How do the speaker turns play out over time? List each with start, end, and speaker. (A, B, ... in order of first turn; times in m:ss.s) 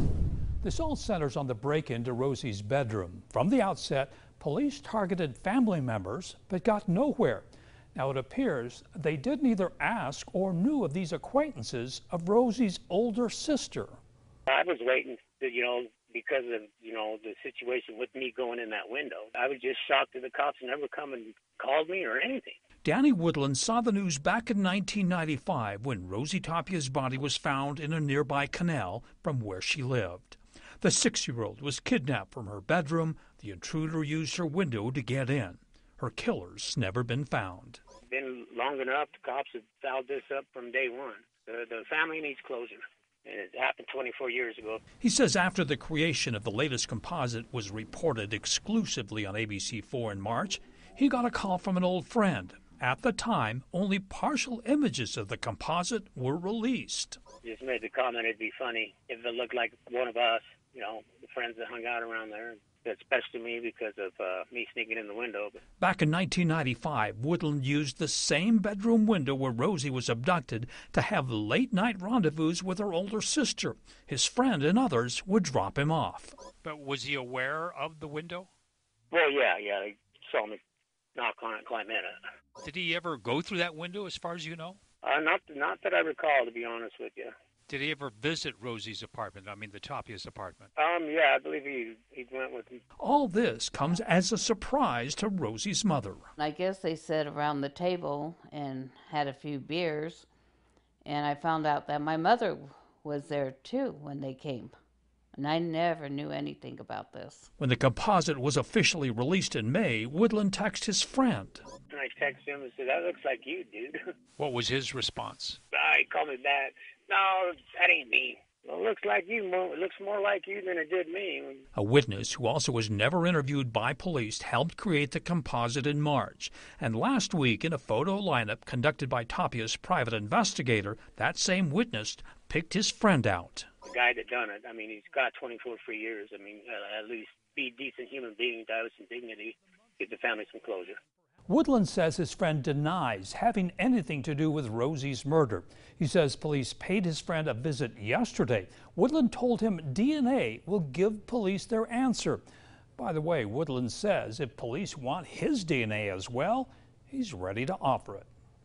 0:00.6-0:14.0 A
0:14.5-0:22.6 B
0:22.8-0:37.8 A
0:38.1-0:44.8 B
0:45.0-0:57.2 A
0:57.4-1:05.6 B
1:05.8-1:16.5 A
1:16.6-1:18.5 C
1:19.1-1:20.6 B
1:21.2-1:22.2 B
1:22.6-1:24.8 C
1:25.0-1:27.3 B
1:27.7-1:30.7 C
1:30.8-1:32.8 B
1:33.0-1:36.3 A
1:36.4-1:40.3 D
1:41.0-1:44.7 D
1:45.3-1:47.5 D
1:47.6-1:51.6 A
1:51.9-1:54.0 B
1:54.5-1:55.6 C
1:55.7-2:01.6 B
2:01.7-2:13.7 A
2:13.8-2:21.0 B
2:21.5-2:32.4 A
2:33.0-2:38.3 A